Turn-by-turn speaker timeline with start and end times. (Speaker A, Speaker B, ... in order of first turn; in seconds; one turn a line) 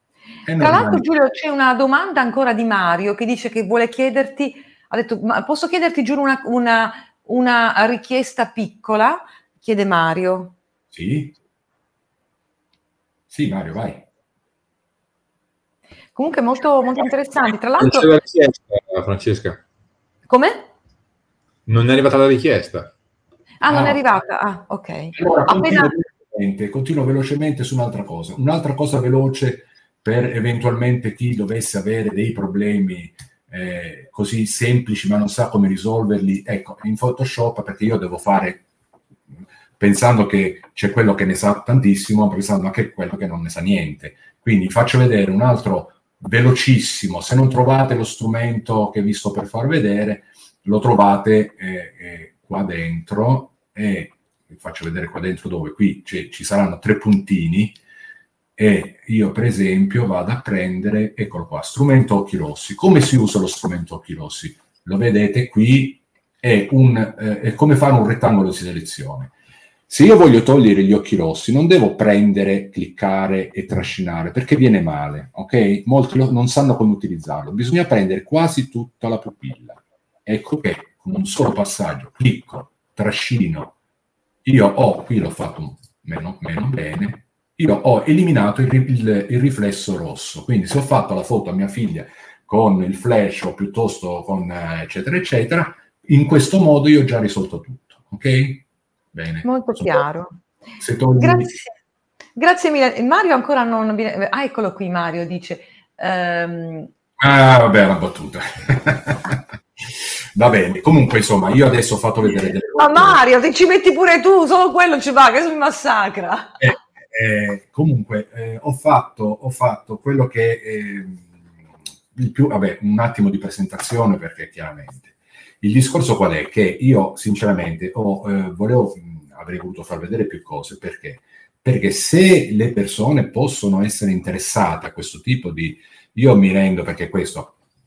Speaker A: 0.4-1.1
Speaker B: 0.6-10.6
Speaker A: 10.9-11.4
Speaker A: 13.3-14.1
Speaker B: 16.1-18.1
Speaker C: 17.8-19.6
Speaker B: 20.3-20.6
Speaker C: 21.6-22.9
Speaker B: 23.6-25.9
Speaker A: 23.6-24.0
Speaker A: 25.1-38.6
Speaker A: 39.8-57.8
Speaker A: 58.6-69.3
Speaker A: 69.9-83.8
Speaker A: 84.4-100.0
Speaker B: 99.4-100.4
Speaker A: 100.8-101.5
Speaker B: 101.2-101.8
Speaker B: 102.4-106.9
Speaker A: 107.2-113.2
Speaker B: 112.2-116.6
Speaker A: 116.6-121.3
Speaker A: 122.2-137.6